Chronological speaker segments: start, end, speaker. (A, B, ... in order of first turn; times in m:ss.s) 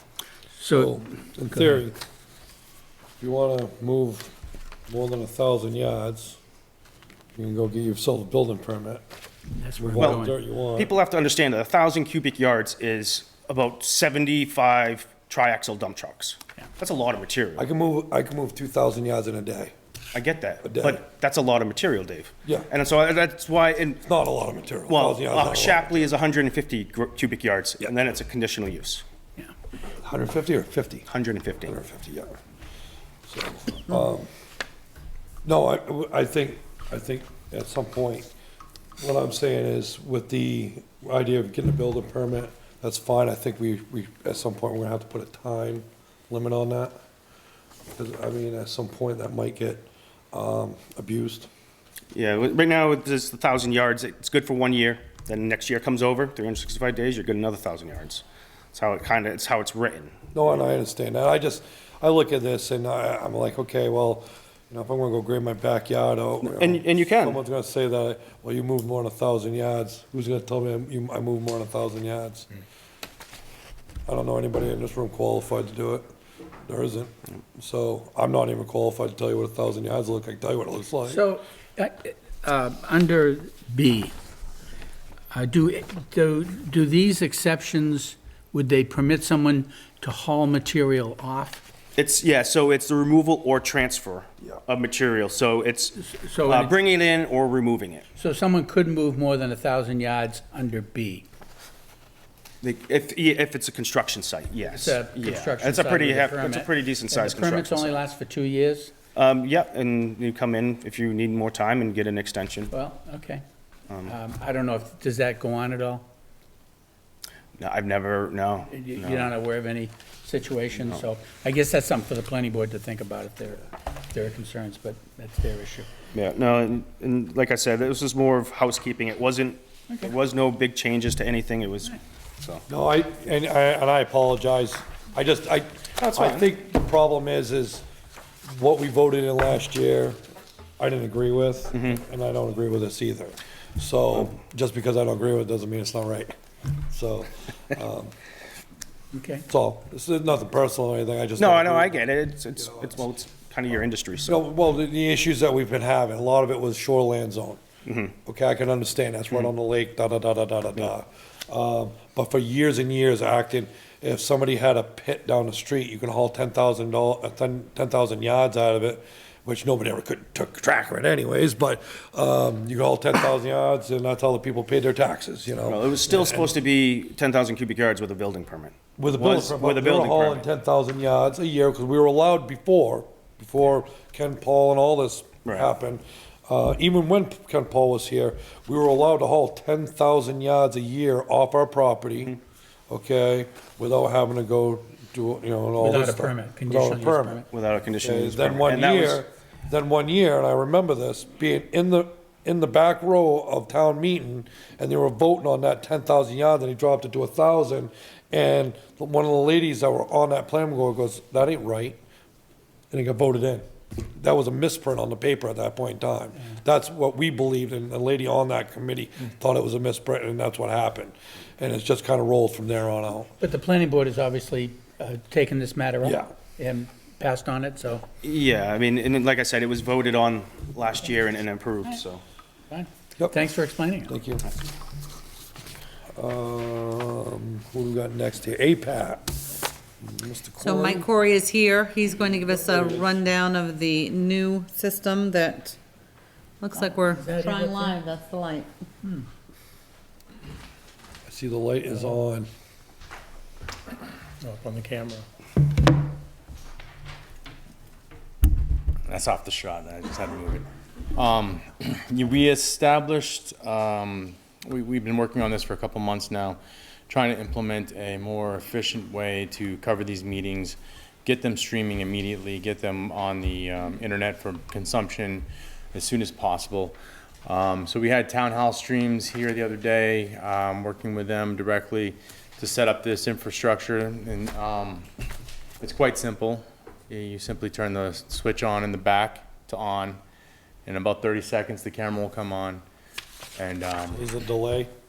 0:00.6-0:01.0 A
0:00.7-0:02.0 B
0:01.5-0:01.8 A
0:03.2-0:04.3 B
0:04.9-0:06.4 B
0:07.4-0:09.0 B
0:09.6-0:10.3 A
0:09.8-0:10.9 B
0:10.0-0:17.7 C
0:17.6-0:19.7 B
0:20.1-0:24.0 C
0:20.6-0:21.0 B
0:24.0-0:26.0 B
0:24.9-0:29.0 C
0:30.0-0:31.1 B
0:31.1-0:31.8 C
0:31.7-0:32.3 B
0:33.3-0:34.3 B
0:35.4-0:38.3 B
0:39.0-0:46.9 B
0:48.0-0:51.5 B
0:52.1-1:00.6 C
1:00.3-1:12.5 B
1:06.4-1:07.4 C
1:14.1-1:16.1 B
1:16.7-1:21.2 B
1:21.1-1:24.1 A
1:25.3-1:31.6 A
1:32.0-1:38.1 C
1:36.0-1:36.8 A
1:38.2-1:41.3 A
1:42.6-1:48.1 C
1:44.6-1:48.9 A
1:49.2-1:52.7 C
1:52.7-1:53.4 A
1:53.9-1:54.1 C
1:54.1-1:56.1 A
1:57.6-1:59.3 C
1:58.7-2:05.9 A
2:00.8-2:01.0 C
2:06.1-2:12.6 C
2:12.7-2:17.8 B
2:16.0-2:16.5 C
2:18.4-2:20.2 B
2:20.8-2:26.3 B
2:21.7-2:22.0 C
2:26.9-2:28.1 B
2:29.1-2:29.5 A
2:29.5-2:32.0 B
2:31.4-2:34.4 C
2:34.2-2:37.6 B
2:37.8-2:38.2 C
2:38.2-2:56.5 B
2:55.6-3:00.5 C
2:59.0-3:12.4 B
3:05.4-3:05.7 C
3:12.9-3:17.4 B
3:15.8-3:17.5 A
3:17.5-3:19.2 C
3:18.0-3:32.0 B
3:32.9-3:33.6 B
3:34.2-3:43.3 B
3:43.4-3:48.1 A
3:46.0-3:46.3 B
3:48.2-3:52.2 C
3:52.7-3:54.2 A
3:53.2-3:53.5 B
3:54.1-3:54.4 B
3:56.2-3:59.4 B
4:00.0-4:01.1 B
4:00.6-4:05.8 D
4:02.7-4:03.0 B
4:06.6-4:08.7 D
4:07.2-4:08.0 A
4:11.3-4:12.5 B
4:14.4-4:15.3 A
4:19.1-4:45.1 E
4:45.8-4:50.2 E
4:50.8-4:52.8 E
4:53.6-4:54.2 E
4:54.1-4:54.9 B